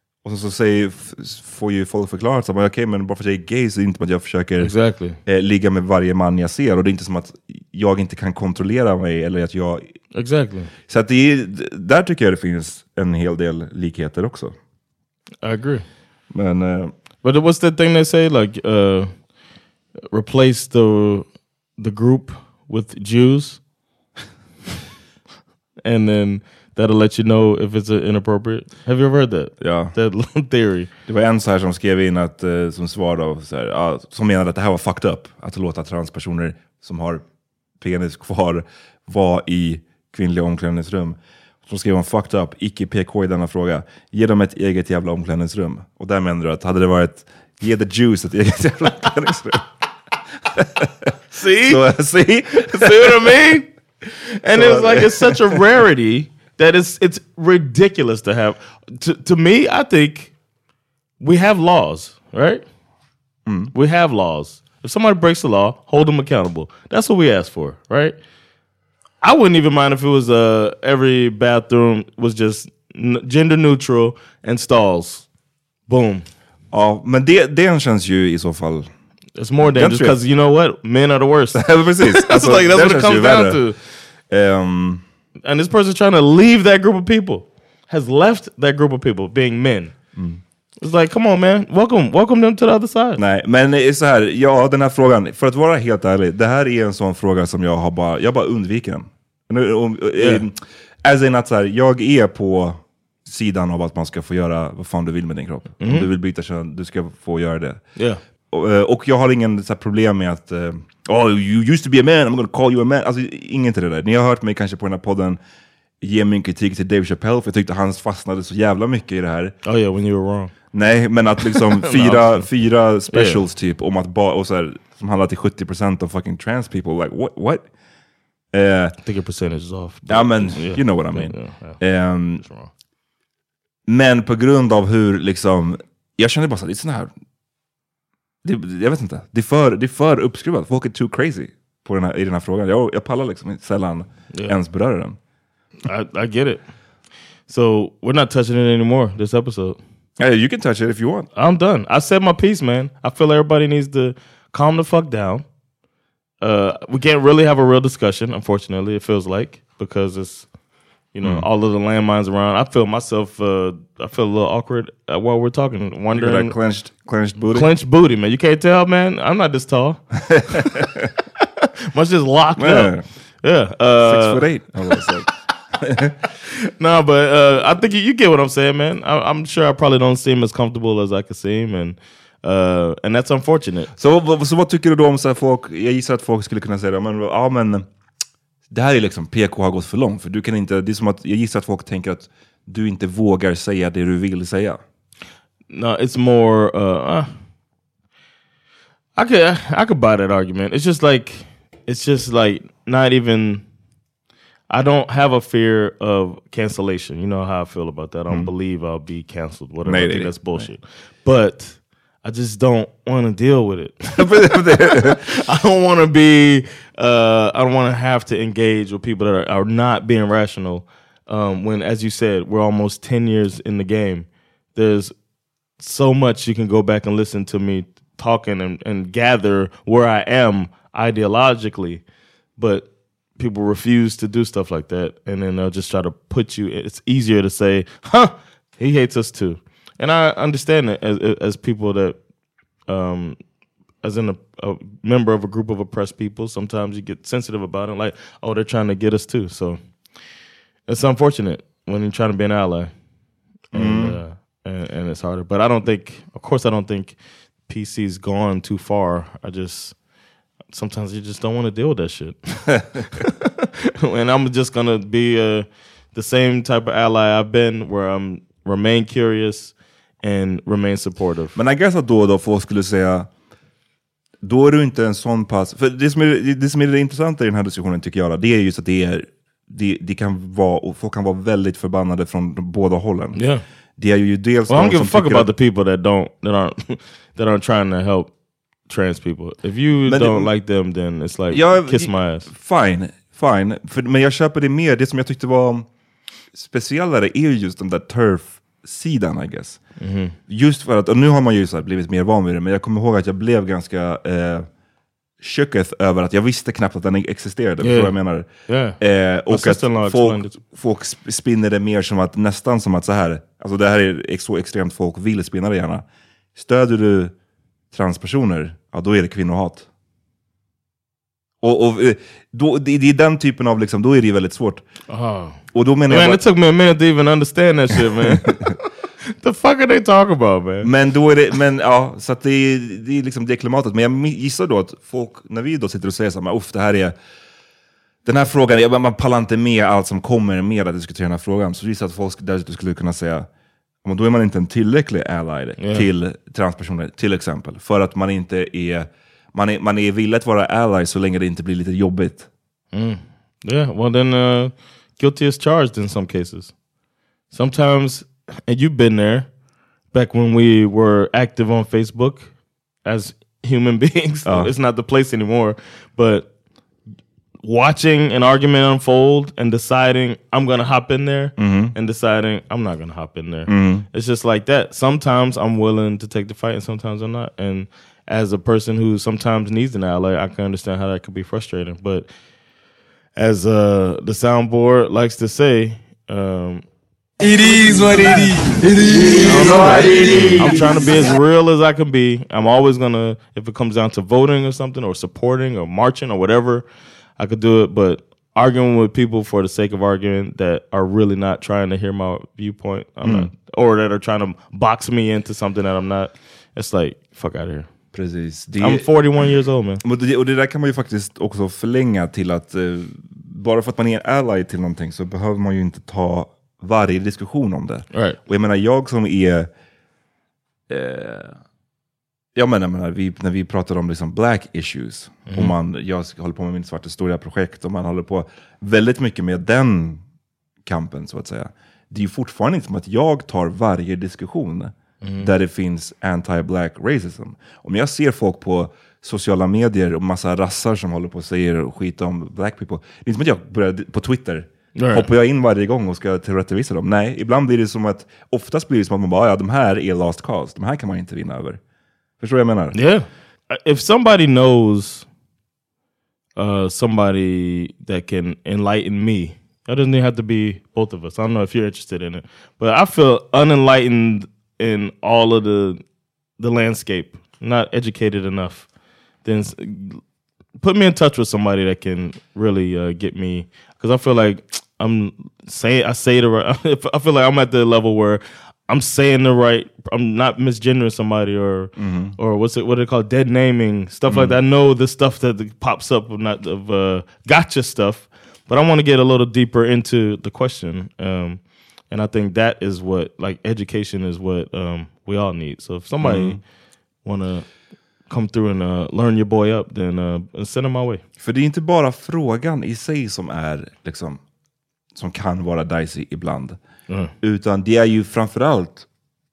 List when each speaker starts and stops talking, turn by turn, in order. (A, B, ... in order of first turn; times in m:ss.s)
0:00.2-0:10.0 A
0:04.6-0:05.2 B
0:10.1-0:10.7 B
0:10.9-0:14.5 A
0:15.4-0:15.9 B
0:16.3-0:16.9 A
0:17.2-0:19.2 B
0:20.1-0:23.6 B
0:25.8-0:30.9 B
0:29.6-0:29.9 A
0:31.1-0:37.2 A
0:37.8-0:49.7 A
0:50.6-0:53.2 A
0:51.3-0:51.9 B
0:52.7-1:00.3 B
0:54.5-0:55.6 A
1:01.2-1:02.6 B
1:03.5-1:03.7 A
1:03.7-1:08.2 B
1:09.2-1:15.3 B
1:15.9-1:16.3 B
1:16.7-1:18.9 A
1:19.4-1:23.8 B
1:19.6-1:20.2 A
1:21.6-1:23.6 A
1:24.3-1:25.0 A
1:25.4-1:30.0 B
1:30.2-1:30.4 A
1:30.8-1:33.2 B
1:33.2-1:47.9 A
1:40.2-1:40.4 B
1:45.8-1:46.1 B
1:48.0-1:48.2 B
1:48.5-1:55.4 A
1:56.0-1:59.6 A
1:59.6-2:00.5 B
2:00.7-2:07.7 A
2:01.4-2:02.5 B
2:03.1-2:03.4 B
2:08.5-2:09.0 A
2:09.0-2:11.8 B
2:10.1-2:12.4 A
2:12.4-2:12.7 B
2:13.9-2:17.1 A
2:18.4-2:25.2 A
2:24.3-2:24.6 B
2:25.8-2:26.6 B
2:27.5-2:29.8 B
2:30.2-2:31.3 A
2:31.3-2:35.5 B
2:36.4-2:40.5 B
2:41.1-2:46.6 B
2:46.1-2:47.7 A
2:47.4-2:50.8 B
2:50.3-2:51.1 A
2:51.4-2:55.3 B
2:52.6-2:53.0 A
2:54.0-2:55.3 A
2:55.8-2:56.1 A
2:56.5-3:03.9 B
3:04.0-3:07.9 A
3:08.7-3:14.8 A
3:15.7-3:17.3 B
3:19.2-3:23.6 B
3:24.7-3:45.2 B
3:29.8-3:30.7 A
3:34.2-3:35.3 A
3:45.8-3:52.0 B
3:52.6-4:02.2 B
4:02.9-4:03.4 B
4:04.0-4:09.8 B
4:10.9-4:12.9 B
4:13.7-4:20.0 B
4:13.7-4:14.2 A
4:20.7-4:31.6 B
4:31.5-4:33.3 A
4:34.4-4:43.4 A
4:43.3-4:43.6 B
4:44.0-4:45.5 A
4:44.7-4:48.3 B
4:48.9-4:52.5 B
4:50.1-4:50.5 A
4:51.5-4:55.9 A
4:56.5-4:59.8 A
5:00.0-5:00.4 B
5:00.5-5:04.7 A
5:05.4-5:17.3 A
5:07.8-5:10.6 B
5:17.9-5:19.9 A
5:21.6-5:24.9 A
5:25.1-5:30.9 B
5:25.7-5:26.4 A
5:28.3-5:28.6 A
5:30.8-5:37.2 A
5:38.2-5:43.5 A
5:44.0-5:52.5 A
5:45.8-5:46.1 B
5:52.9-5:56.8 B
5:57.5-5:59.5 B
6:00.1-6:06.5 B
6:04.5-6:04.7 A
6:07.6-6:22.3 B
6:11.6-6:11.9 A
6:13.7-6:14.1 A
6:23.4-6:26.8 B
6:27.4-6:31.3 C
6:29.4-6:36.9 B
6:37.4-6:47.9 B
6:43.2-6:43.5 A
6:48.1-6:49.5 A
6:48.8-6:50.0 B
6:50.0-6:59.7 A
6:58.1-6:58.4 B
7:00.9-7:01.6 A
7:02.6-7:10.2 A
7:05.5-7:05.7 B
7:10.8-7:31.8 A
7:15.2-7:15.5 B
7:25.0-7:25.3 B
7:32.4-7:33.0 A
7:32.9-7:35.3 B
7:36.6-7:46.0 B
7:46.6-7:48.9 B
7:49.4-7:50.2 B
7:50.8-8:16.6 B
8:02.0-8:02.4 A
8:04.3-8:04.6 A
8:16.2-8:16.6 A
8:17.2-8:17.7 B
8:18.3-8:21.2 B
8:21.4-8:24.4 A
8:25.2-8:26.8 A
8:27.1-8:27.3 B
8:27.4-8:29.1 A